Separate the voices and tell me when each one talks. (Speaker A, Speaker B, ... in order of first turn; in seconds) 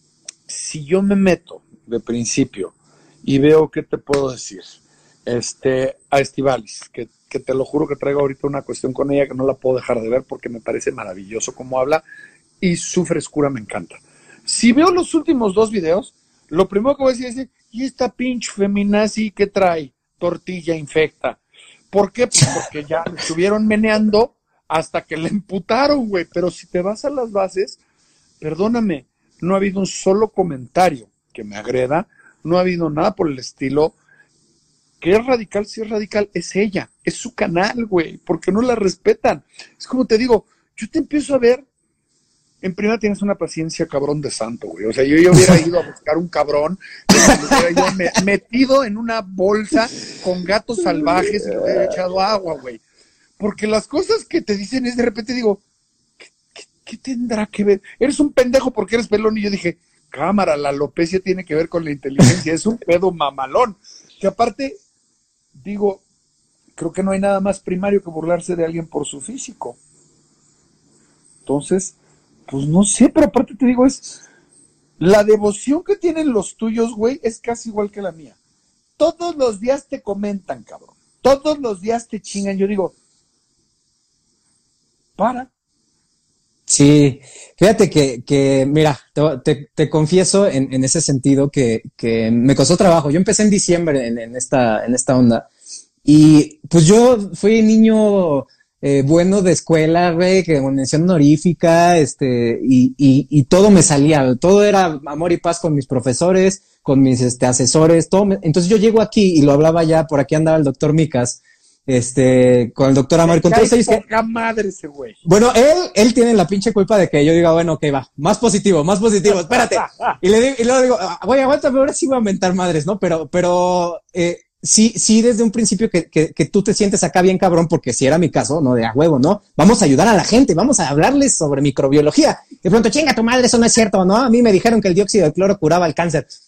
Speaker A: 0.5-12.0, 12.6-21.4, 21.9-27.8, 28.4-34.0, 35.0-41.7, 42.6-52.8, 53.4-55.6, 56.6-64.8, 65.5-66.0, 66.8-69.8, 71.5-72.0, 72.5-74.2, 75.0-78.4, 79.0-83.0, 85.2-85.5, 113.2-115.2, 119.3-120.2
Speaker B: 47.2-47.9, 51.0-51.9, 86.7-95.5, 96.0-114.0, 115.2-136.3